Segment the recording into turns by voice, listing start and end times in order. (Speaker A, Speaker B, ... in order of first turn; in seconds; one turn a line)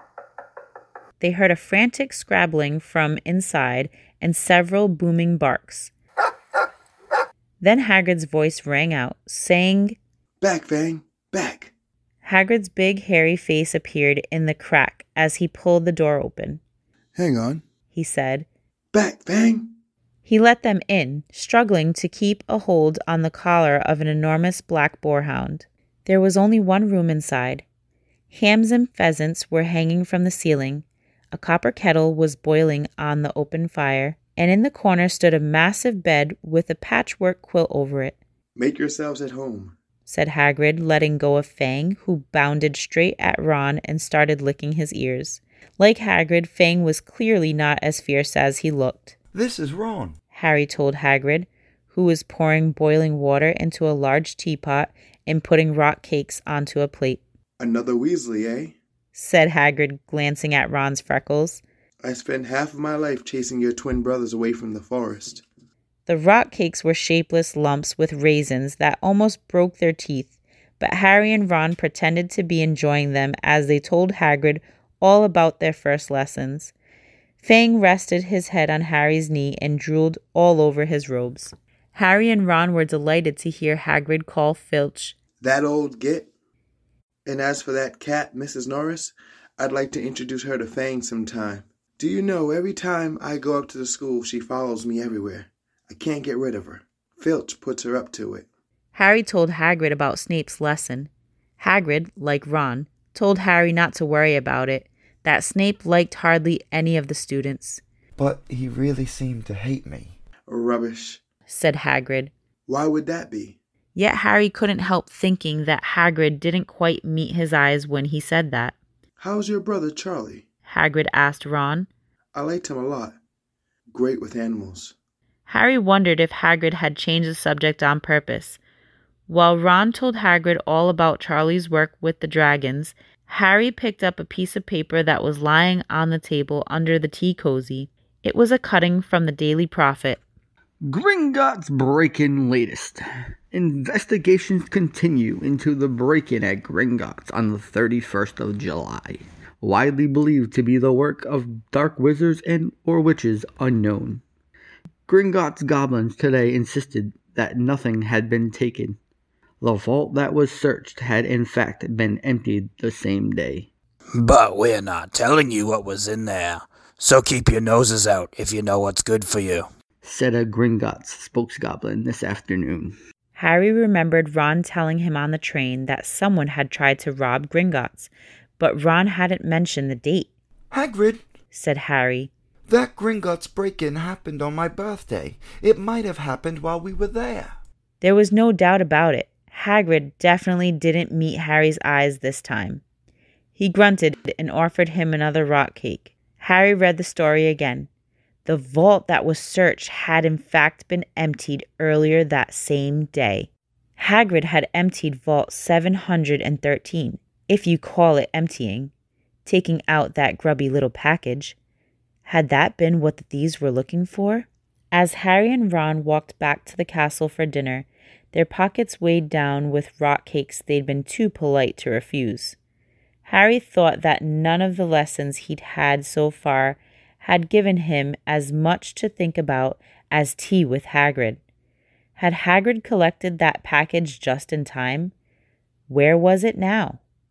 Speaker A: 1.2-5.9
Speaker A: 7.6-10.0
Speaker B: 10.4-11.7
Speaker A: 12.2-16.6
Speaker B: 17.2-17.6
Speaker A: 17.9-18.5
Speaker B: 18.9-19.7
Speaker A: 20.2-27.6
Speaker A: 28.3-38.2
Speaker B: 38.6-39.8
Speaker A: 40.0-49.2
Speaker C: 49.3-50.2
Speaker A: 50.3-57.2
Speaker B: 57.6-58.8
Speaker A: 59.1-61.6
Speaker B: 62.0-65.5
Speaker A: 66.1-76.7
Speaker A: 77.4-85.2
Speaker B: 85.4-86.3
Speaker B: 87.2-98.5
Speaker A: 98.9-107.8
Speaker C: 108.2-110.2
Speaker B: 110.5-111.2
Speaker A: 111.5-112.3
Speaker B: 112.7-113.6
Speaker A: 114.0-118.8
Speaker B: 119.2-120.5
Speaker A: 120.7-121.9
Speaker B: 122.3-123.2
Speaker B: 123.9-125.0
Speaker A: 125.5-128.6
Speaker A: 129.3-140.2
Speaker D: 140.9-154.2
Speaker D: 155.1-159.0
Speaker D: 159.6-163.7
Speaker E: 164.1-169.7
Speaker D: 170.0-172.9
Speaker A: 173.3-180.3
Speaker C: 180.7-181.2
Speaker A: 181.5-182.3
Speaker C: 182.7-187.6
Speaker A: 188.0-192.8
Speaker A: 193.6-197.9
Speaker A: 198.4-208.9
Speaker A: 209.5-211.6
Speaker A: 212.3-222.6
Speaker A: 223.2-231.4
Speaker A: 232.2-235.1
Speaker A: 235.9-237.0